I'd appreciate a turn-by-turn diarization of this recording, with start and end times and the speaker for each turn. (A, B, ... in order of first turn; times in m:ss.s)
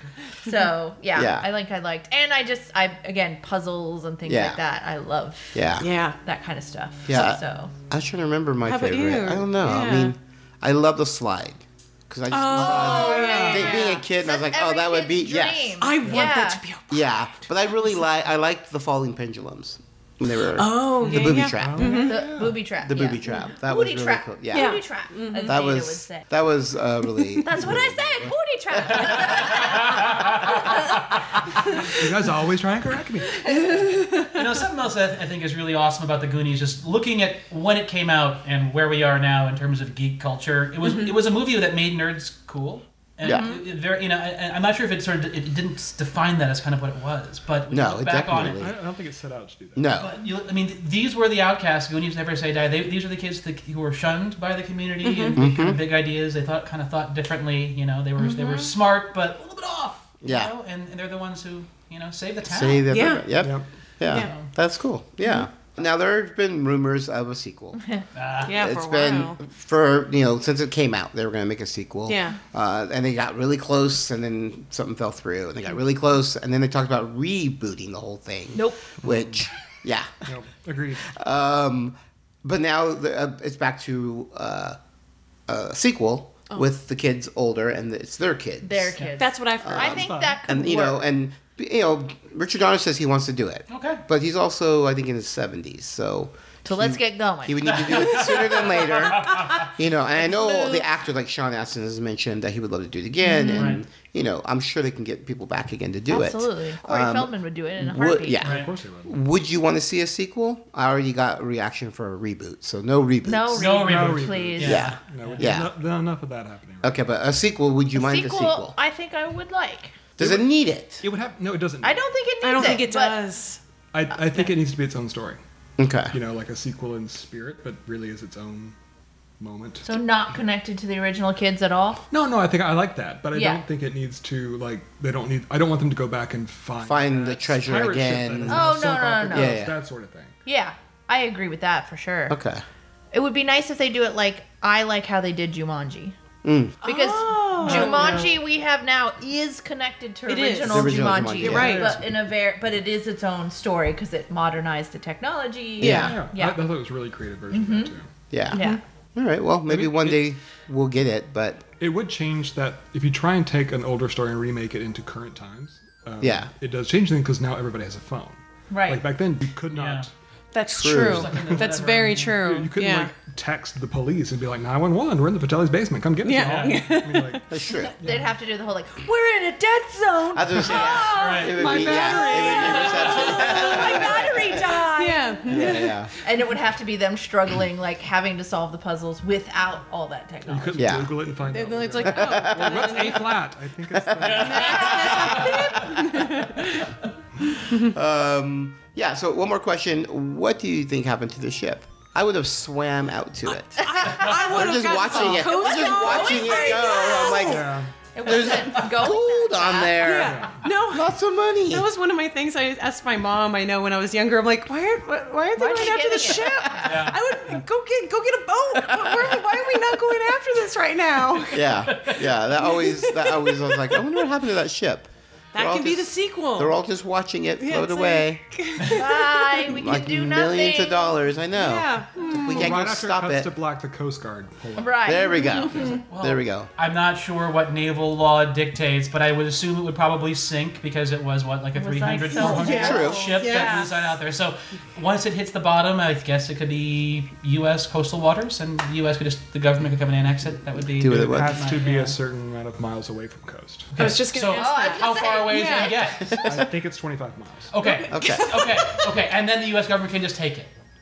0:00.4-0:05.6 A
0:01.2-0:01.5 B
0:04.3-0:04.6 B
0:05.5-0:05.9 B
0:05.8-0:06.2 C
0:06.2-0:07.7 A
0:07.1-0:15.8 B
0:08.6-0:10.2 C
0:12.3-0:14.0 C
0:12.5-0:16.6 A
0:13.2-0:13.5 D
0:15.8-0:17.8 C
0:16.0-0:16.3 E
0:16.9-0:22.1 B
0:20.5-0:22.2 C
0:21.0-0:22.6 E
0:22.0-0:26.3 A
0:22.8-0:28.4 B
0:24.5-0:25.6 C
0:27.4-0:31.0 A
0:28.9-0:29.3 B
0:29.0-0:31.0 D
0:31.9-0:33.9 E
0:33.9-0:34.4 C
0:34.3-0:48.6 D
0:40.8-0:41.1 C
0:43.2-0:43.5 B
0:43.3-0:43.6 A
0:47.7-0:48.8 B
0:48.4-0:50.0 E
0:49.8-0:50.2 B
0:50.0-1:03.1 D
0:55.0-0:55.4 C
0:55.3-0:55.8 B
0:58.2-0:58.7 A
1:00.2-1:00.5 B
1:02.4-1:07.8 B
1:02.9-1:03.4 C
1:03.4-1:03.7 E
1:04.1-1:04.3 C
1:04.1-1:04.5 D
1:08.2-1:08.5 D
1:08.5-1:20.2 B
1:08.5-1:09.4 C
1:12.1-1:12.4 C
1:18.6-1:18.8 A
1:20.3-1:21.1 E
1:21.0-1:24.8 B
1:25.5-1:29.0 B
1:28.6-1:31.0 A
1:29.2-1:30.1 C
1:29.6-1:53.8 B
1:30.0-1:30.4 E
1:33.7-1:34.0 D
1:36.6-1:37.8 A
1:37.6-1:39.7 D
1:40.2-1:40.8 A
1:43.2-1:43.8 A
1:43.5-1:43.8 D
1:46.1-1:48.4 A
1:48.4-1:49.2 E
1:48.4-1:48.7 D
1:53.2-1:54.9 A
1:53.6-1:55.5 D
1:53.8-1:57.0 E
1:54.6-1:55.7 B
1:56.8-1:58.8 B
1:58.0-2:00.0 A
2:00.2-2:01.0 B
2:00.2-2:00.5 E
2:01.0-2:02.8 E
2:01.8-2:03.2 A
2:02.4-2:03.6 C
2:03.9-2:05.4 E
2:05.8-2:06.1 B
2:06.1-2:08.8 E
2:09.4-2:10.0 E
2:09.8-2:12.0 A
2:12.1-2:20.4 E
2:13.3-2:13.6 A
2:16.8-2:19.8 B
2:18.5-2:19.7 A
2:20.5-2:22.4 A
2:22.3-2:22.6 B
2:23.1-2:26.2 A
2:26.4-2:26.8 B
2:26.8-2:36.6 A
2:26.8-2:28.3 C
2:27.6-2:28.2 D
2:30.3-2:31.9 C
2:30.6-2:32.0 B
2:31.4-2:32.0 E
2:35.8-2:36.1 C
2:35.8-2:36.1 B
2:35.9-2:38.1 E
2:37.5-2:37.9 A
2:38.3-2:38.6 B
2:38.5-2:38.8 C
2:38.5-2:38.8 A
2:39.2-2:41.7 B
2:39.7-2:40.3 E
2:41.8-2:50.1 E
2:46.2-2:46.5 B
2:48.7-2:49.0 A
2:49.7-2:50.1 D
2:50.5-2:53.1 C
2:50.7-2:51.3 B
2:50.9-2:52.4 D
2:50.9-2:57.5 E
2:56.2-2:57.4 C
2:56.4-2:56.8 D
2:57.5-2:58.0 B
2:58.0-3:01.4 A
2:58.0-2:58.3 E
3:00.3-3:04.7 B
3:00.6-3:01.1 C
3:01.1-3:02.0 D
3:01.5-3:03.2 E
3:02.1-3:10.9 A
3:02.5-3:03.9 D
3:02.8-3:06.0 C
3:05.5-3:06.1 B
3:10.5-3:16.3 E
3:10.8-3:11.2 B
3:11.4-3:13.3 C
3:12.0-3:12.9 B
3:13.9-3:15.2 B
3:14.4-3:16.9 C
3:14.5-3:15.4 D
3:17.7-3:18.0 C
3:17.9-3:31.9 B
3:23.8-3:24.3 A
3:23.8-3:27.5 C
3:24.2-3:24.5 D
3:24.8-3:27.6 A
3:27.4-3:27.9 E
3:28.1-3:30.2 A
3:30.0-3:31.1 C
3:30.3-3:30.6 E
3:31.6-3:44.2 C
3:35.6-3:37.0 A
3:36.8-3:37.2 D
3:41.5-3:48.4 B
3:45.5-3:46.8 C
3:47.6-3:49.5 C
3:48.9-3:51.1 A
3:49.7-3:53.5 B
3:51.6-3:52.7 C
3:52.4-3:56.0 E
3:54.8-3:55.4 A
3:55.0-3:56.7 B
3:55.6-3:56.0 C
3:56.1-4:12.2 D
4:01.8-4:03.9 A
4:02.3-4:03.9 C
4:02.4-4:02.9 E
4:02.8-4:03.3 B
4:11.0-4:11.6 B
4:11.0-4:14.1 E
4:13.9-4:16.4 D
4:14.0-4:15.9 C
4:14.5-4:16.1 A
4:16.2-4:16.7 B
4:16.4-4:17.8 E
4:17.7-4:20.7 D
4:17.8-4:19.1 C
4:18.1-4:18.6 B